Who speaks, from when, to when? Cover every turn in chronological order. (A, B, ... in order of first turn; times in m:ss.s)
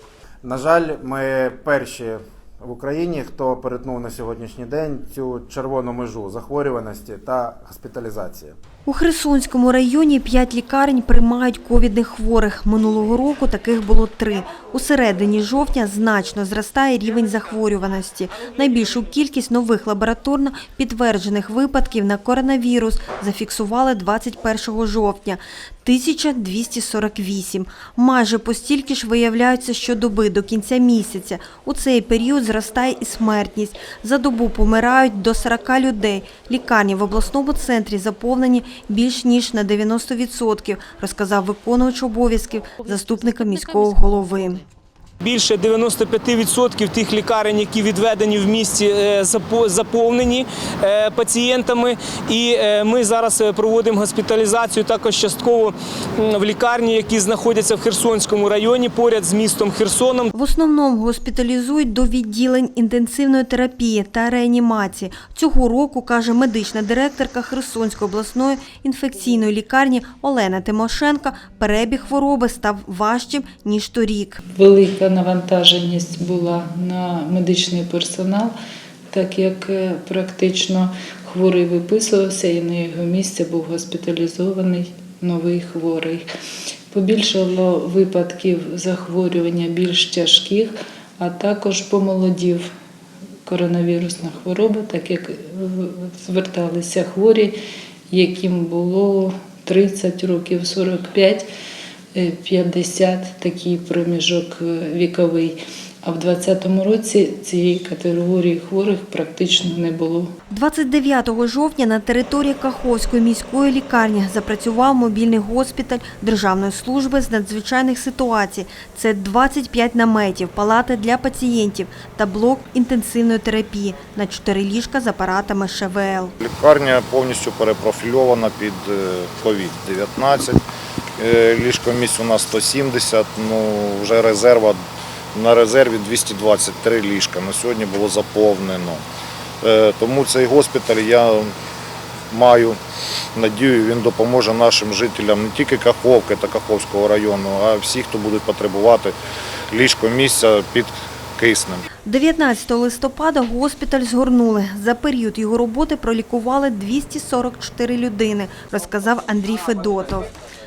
0:00.4-0:08.5 A
0:08.8-0:44.6 B
0:45.2-1:00.3 C
1:00.3-1:14.4 B
1:14.5-1:18.5 D
1:19.1-1:26.2 D
1:26.9-1:32.7 D
1:33.4-1:37.6 D
1:38.1-1:41.5 D
1:42.2-1:50.3 D
1:50.5-2:06.3 B
2:06.4-2:10.6 E
2:11.2-2:14.8 E
2:15.3-2:19.0 E
2:19.6-2:21.5 E
2:22.3-2:22.8 E
2:23.4-2:29.1 E
2:29.7-2:31.8 E
2:32.0-2:40.3 B